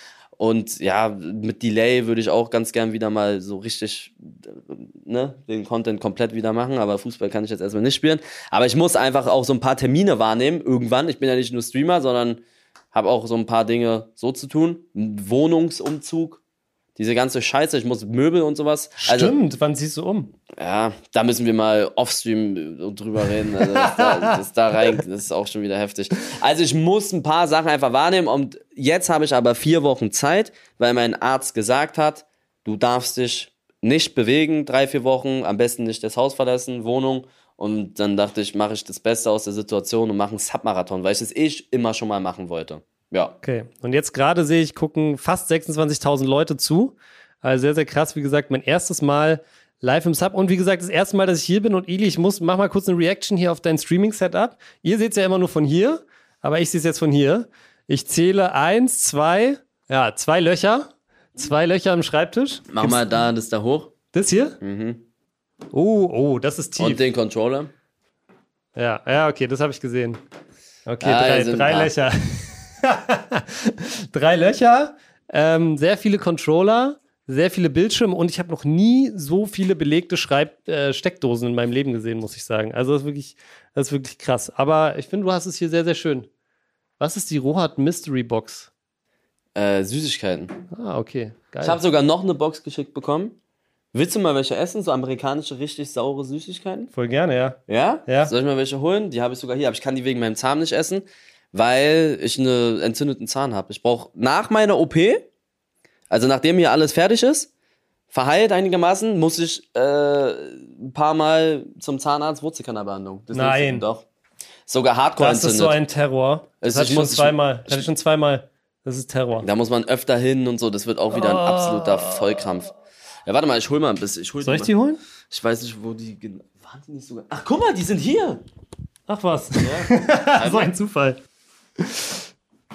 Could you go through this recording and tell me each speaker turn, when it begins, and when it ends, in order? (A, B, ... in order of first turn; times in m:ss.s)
0:00.4-0:12.4 A
0:12.9-0:16.4 A
0:17.0-0:19.4 A
0:19.0-0:20.3 B
0:20.6-0:43.4 A
0:23.7-0:24.4 B
0:43.4-1:03.0 B
1:02.7-1:03.9 A
1:04.1-1:04.6 B
1:04.6-1:05.0 A
1:05.7-1:07.0 B
1:06.8-1:07.7 A
1:08.8-1:10.2 B
1:10.9-1:26.3 B
1:11.0-1:11.9 A
1:27.0-1:28.7 B
1:29.6-1:30.6 A
1:30.7-1:31.8 B
1:31.6-1:33.4 A
1:33.9-1:36.9 A
1:36.9-1:38.3 B
1:37.7-1:45.3 A
1:46.1-1:47.5 A
1:48.1-1:54.0 A
1:53.3-1:53.8 B
1:54.7-1:55.8 A
1:55.2-1:59.5 B
1:56.6-1:57.9 A
1:59.4-2:02.7 A
2:01.1-2:02.3 B
2:03.3-2:04.7 A
2:04.4-2:05.0 B
2:05.3-2:08.4 A
2:09.1-2:11.2 B
2:09.6-2:10.7 A
2:11.8-2:12.2 B